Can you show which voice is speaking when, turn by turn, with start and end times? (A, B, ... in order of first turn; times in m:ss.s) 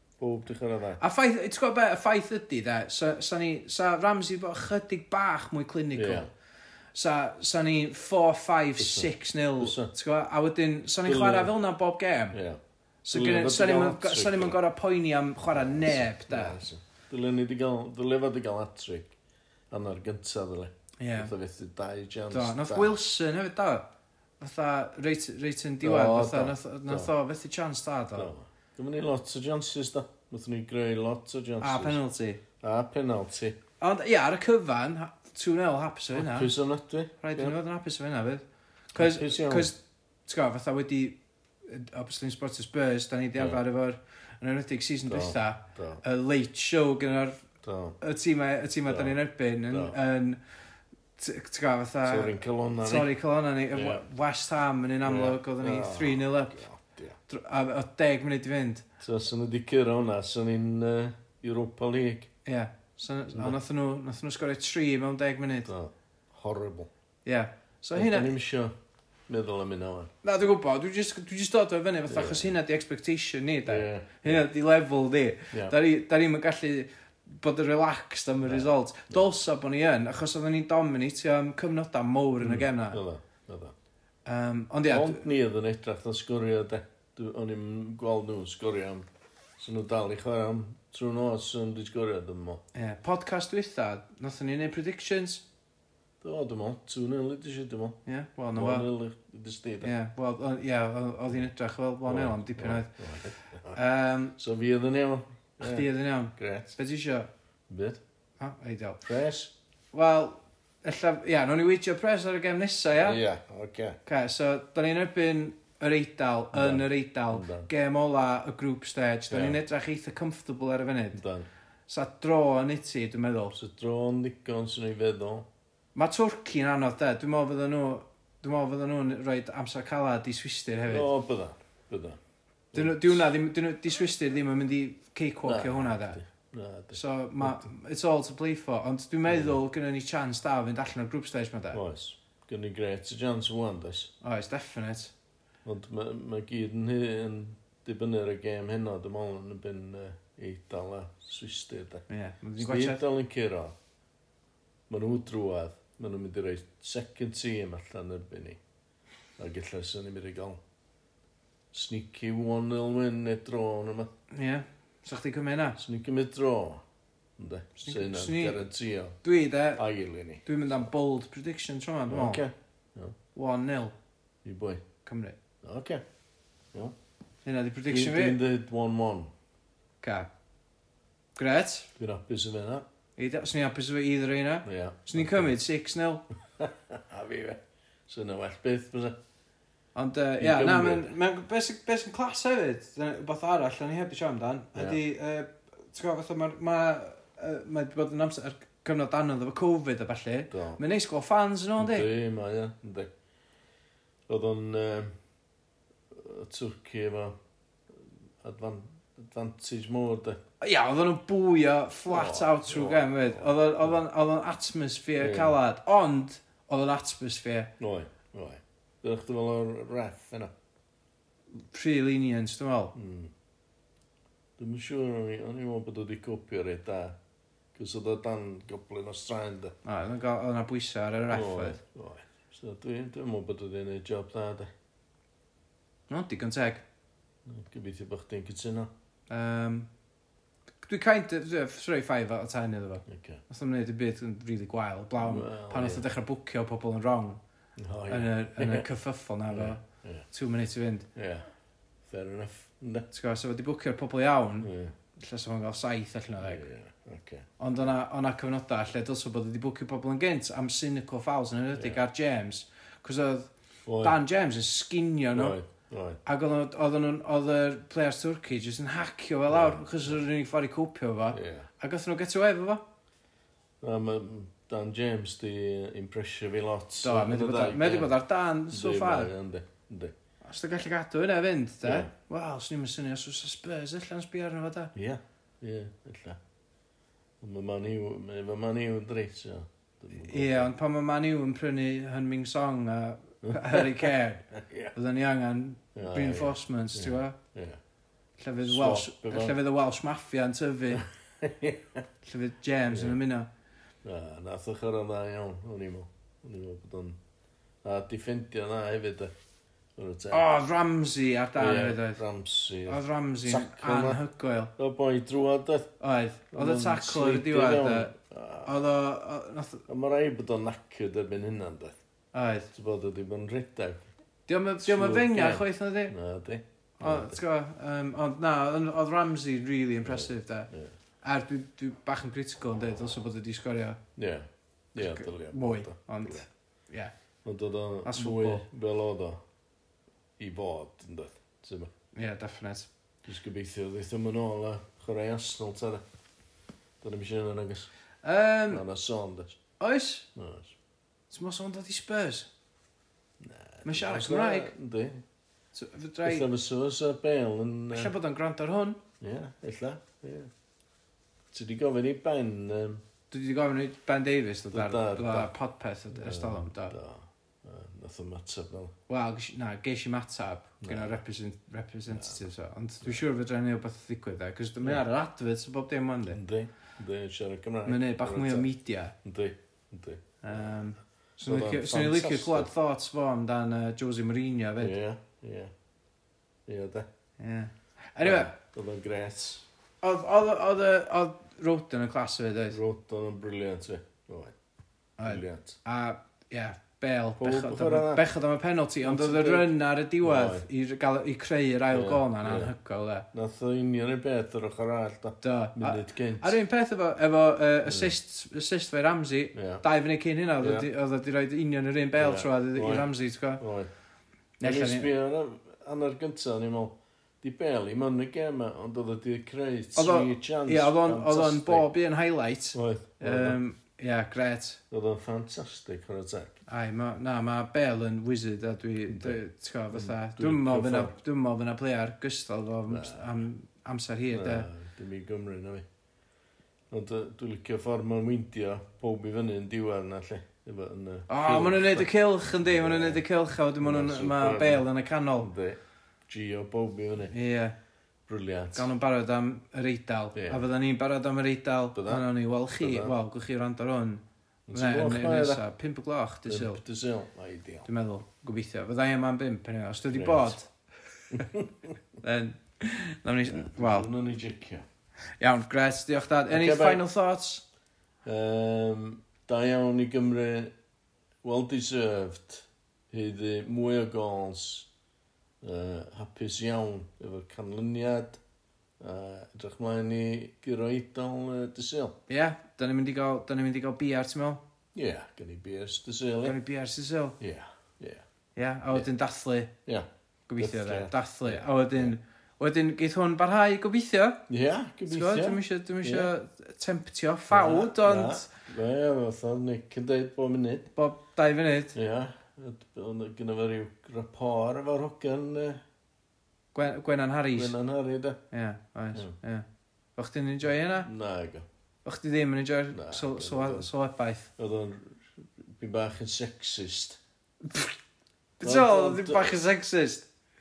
0:00.2-0:01.0 A
0:01.0-0:06.3 B
0:06.0-0:06.3 A
0:06.9-0:12.4 B
0:08.8-0:09.9 A
0:11.0-0:11.5 A
0:12.3-0:12.6 A
0:13.0-0:16.6 B
0:13.1-0:14.6 A
0:15.5-0:19.1 A
0:19.7-0:23.0 A
0:21.0-0:21.3 B
0:22.3-0:23.9 B
0:24.4-0:28.3 B
0:25.8-0:27.1 A
0:28.2-0:32.0 A
0:31.6-0:32.4 B
0:32.6-0:33.6 A
0:33.8-0:36.5 B
0:36.1-0:37.6 A
0:37.2-0:38.4 B
0:38.9-0:47.4 B
0:38.9-0:39.7 A
0:45.1-0:46.0 A
0:47.6-0:48.0 A
0:48.0-0:50.4 B
0:48.8-0:49.2 A
0:49.7-0:50.0 A
0:51.2-0:56.6 B
0:52.0-0:53.1 A
0:53.7-0:54.0 A
0:55.0-0:57.2 A
0:57.3-0:58.8 B
0:59.0-1:02.3 A
1:02.4-1:05.7 B
1:03.3-1:03.6 A
1:05.6-1:06.9 A
1:07.2-1:08.3 B
1:07.9-1:08.7 A
1:09.3-1:10.1 A
1:10.2-1:23.0 B
1:12.1-1:12.5 A
1:13.6-1:14.4 A
1:18.4-1:19.3 A
1:22.4-1:23.7 A
1:24.2-1:25.2 B
1:24.9-1:29.1 A
1:29.6-1:32.6 A
1:32.7-1:35.4 B
1:36.2-1:38.0 A
1:38.0-1:38.9 B
1:38.5-1:39.9 A
1:39.8-1:42.9 B
1:42.0-1:43.8 A
1:43.7-1:44.3 B
1:44.4-1:46.8 A
1:45.6-1:47.3 B
1:47.7-1:48.0 A
1:48.4-1:49.0 B
1:49.0-1:49.5 A
1:49.9-1:53.2 B
1:53.0-1:54.0 A
1:54.0-2:01.2 B
1:56.5-1:57.7 A
1:59.3-1:59.6 A
2:01.1-2:01.5 A
2:01.9-2:03.5 B
2:03.5-2:05.5 A
2:05.9-2:11.1 B
2:10.9-2:12.2 A
2:12.7-2:13.3 A
2:12.7-2:16.2 B
2:15.4-2:17.7 A
2:16.9-2:21.8 B
2:19.3-2:19.6 A
2:21.7-2:24.1 A
2:24.2-2:25.1 B
2:25.6-2:32.0 A
2:32.1-2:33.0 B
2:32.6-2:33.8 A
2:34.9-2:38.6 A
2:39.4-2:40.6 A
2:41.7-2:44.1 A
2:44.3-2:45.8 B
2:45.8-2:46.8 A
2:47.4-2:49.2 A
2:47.8-2:48.6 B
2:49.2-2:49.8 B
2:49.8-2:50.5 A
2:50.4-2:52.4 B
2:52.1-2:53.2 A
2:53.3-2:53.9 B
2:54.4-2:54.8 A
2:55.0-2:55.4 B
2:55.6-2:56.0 A
2:57.4-2:58.4 B
2:57.9-2:59.3 A
3:00.0-3:00.3 B
3:01.4-3:01.9 B
3:02.0-3:02.8 A
3:03.2-3:06.2 B
3:04.6-3:05.5 A
3:06.6-3:09.2 A
3:09.9-3:22.1 B
3:10.4-3:11.1 A
3:14.7-3:15.0 A
3:20.5-3:20.8 A
3:21.8-3:23.1 A
3:24.3-3:25.1 A
3:26.1-3:27.4 A
3:27.9-3:30.4 A
3:30.6-3:37.7 B
3:32.1-3:34.0 A
3:35.2-3:35.6 A
3:37.8-3:40.5 A
3:41.6-3:42.9 B
3:42.9-3:43.3 A
3:44.6-3:47.2 A
3:47.7-3:49.7 A
3:49.8-3:51.8 B
3:51.3-3:54.7 A
3:56.1-3:56.8 B
3:57.4-3:58.9 A
3:59.3-3:59.9 B
4:00.8-4:07.4 B
4:03.0-4:03.4 A
4:05.2-4:06.0 A
4:07.8-4:08.9 A
4:08.1-4:11.1 B
4:09.5-4:10.2 A
4:11.1-4:11.4 A
4:12.0-4:13.1 A
4:13.1-4:16.6 B
4:14.6-4:14.9 A
4:16.4-4:17.4 A
4:17.6-4:23.5 B
4:21.7-4:22.0 A
4:23.8-4:24.2 A
4:24.0-4:25.6 B
4:25.3-4:26.2 A
4:26.2-4:32.8 B
4:29.5-4:30.2 A
4:31.3-4:31.7 A
4:33.8-4:38.2 A
4:37.0-4:39.3 B
4:38.7-4:40.1 A
4:40.4-4:44.9 B
4:41.8-4:42.1 A
4:44.9-4:46.4 A
4:47.4-4:50.7 A
4:50.2-4:57.4 B
4:53.4-4:54.9 A
4:55.9-4:57.8 A
4:58.4-5:01.0 B
4:58.6-4:59.6 A
5:00.9-5:02.0 A
5:02.2-5:03.5 B
5:02.9-5:03.2 A
5:04.0-5:07.2 A
5:07.8-5:09.3 A
5:10.0-5:10.4 A
5:10.3-5:12.2 B
5:11.6-5:14.2 A
5:12.9-5:14.7 B
5:14.8-5:15.9 A
5:16.0-5:18.1 B
5:16.5-5:18.8 A
5:18.6-5:19.8 B
5:19.9-5:22.0 A
5:22.3-5:22.7 B
5:22.7-5:24.1 A
5:24.5-5:26.1 B
5:24.8-5:27.4 A
5:27.0-5:30.7 B
5:30.0-5:30.9 A
5:31.2-5:34.0 B
5:34.2-5:36.5 A
5:35.0-5:37.1 B
5:37.4-5:39.4 A
5:38.0-5:38.6 B
5:40.4-5:41.9 A
5:42.1-5:42.9 B
5:43.2-5:46.0 A
5:47.0-5:47.9 A
5:48.2-5:48.8 B
5:48.7-5:49.6 A
5:49.8-5:50.3 B
5:50.4-5:50.7 A
5:51.3-5:52.5 B
5:53.4-5:55.2 A
5:53.8-5:54.7 B
5:55.7-5:56.5 B
5:56.2-5:58.1 A
5:57.9-5:59.0 B
5:59.2-6:00.5 A
6:01.5-6:03.0 A
6:03.3-6:06.9 B
6:04.7-6:05.5 A
6:06.1-6:08.9 A
6:09.1-6:16.4 B
6:10.8-6:11.2 A
6:12.1-6:12.4 A
6:16.3-6:18.7 A
6:17.8-6:19.1 B
6:19.2-6:20.7 A
6:20.4-6:25.0 B
6:21.4-6:22.7 A
6:24.8-6:25.7 A
6:26.7-6:27.1 A
6:27.4-6:28.5 B
6:28.2-6:29.6 A
6:30.0-6:32.8 B
6:32.7-6:34.5 A
6:35.2-6:43.2 B
6:35.2-6:35.8 A
6:37.4-6:38.2 A
6:39.0-6:40.6 A
6:41.9-6:42.7 A
6:43.3-6:46.6 A
6:45.4-6:53.6 B
6:47.8-6:48.1 A
6:49.5-6:49.8 A
6:50.6-6:50.9 A
6:52.2-6:53.9 A
6:54.6-6:55.1 B
6:54.6-7:01.9 A
6:59.9-7:04.8 B
7:02.7-7:03.6 A
7:04.9-7:06.6 A
7:06.7-7:14.7 B
7:09.1-7:09.4 A
7:09.9-7:11.1 A
7:12.9-7:13.3 A
7:14.3-7:15.8 A
7:16.9-7:23.2 A
7:21.3-7:25.5 B
7:23.8-7:24.9 A
7:25.4-7:27.3 A
7:27.3-7:27.7 B
7:28.3-7:28.9 A
7:28.7-7:36.8 B
7:30.3-7:30.6 A
7:31.9-7:33.1 A
7:34.7-7:35.6 A
7:36.4-7:37.9 A
7:37.8-7:40.7 B
7:40.1-7:40.6 A
7:41.3-7:41.9 A
7:42.2-7:44.1 B
7:43.4-7:44.8 A
7:45.4-7:47.6 B
7:46.5-7:47.0 A
7:48.2-7:50.7 A
7:51.4-7:54.9 A
7:55.6-7:58.4 A
7:59.0-8:02.2 A
8:02.3-8:04.6 B
8:04.9-8:06.6 A
8:06.4-8:07.4 B
8:07.4-8:08.2 A
8:08.6-8:09.7 B
8:10.5-8:14.4 B
8:10.6-8:12.1 A
8:14.5-8:16.3 A
8:15.1-8:18.5 B
8:17.5-8:20.9 A
8:20.9-8:22.0 B
8:21.9-8:25.8 A
8:26.7-8:27.7 B
8:27.5-8:28.4 A
8:28.5-8:29.6 B
8:30.2-8:31.1 B
8:31.0-8:31.6 A
8:32.0-8:34.5 B
8:32.9-8:33.9 A
8:34.6-8:37.2 A
8:38.6-8:40.3 B
8:38.6-8:39.6 A